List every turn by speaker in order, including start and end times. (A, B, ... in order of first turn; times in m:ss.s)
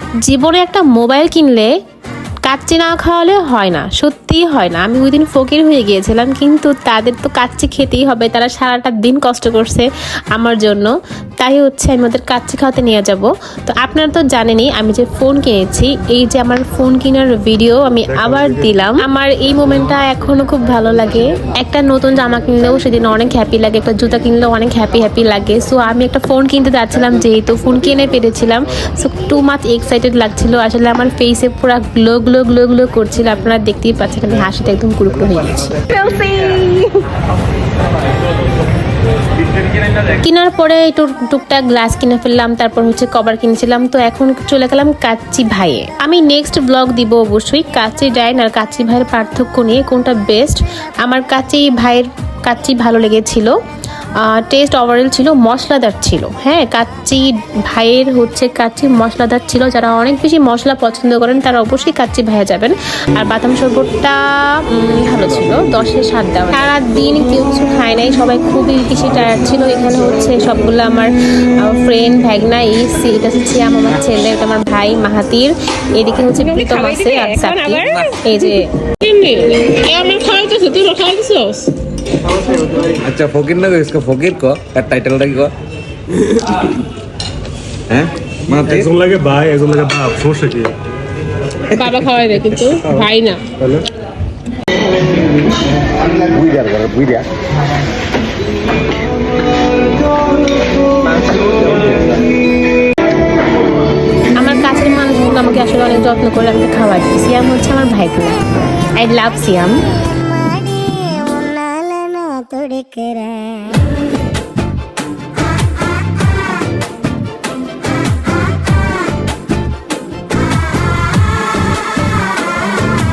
0:00.2-0:01.7 A
0:02.4-0:35.9 A
0:35.9-0:37.0 B
0:40.2-0:53.6 A
0:54.2-1:18.7 A
1:16.4-1:21.7 B
1:22.8-1:25.5 C
1:26.3-1:26.7 C
1:27.9-1:28.9 C
1:28.6-1:30.8 D
1:31.7-1:33.4 B
1:32.6-1:32.9 A
1:32.7-1:33.0 D
1:33.6-1:33.9 D
1:36.0-1:37.3 C
1:44.4-1:49.8 A
1:50.2-1:53.8 E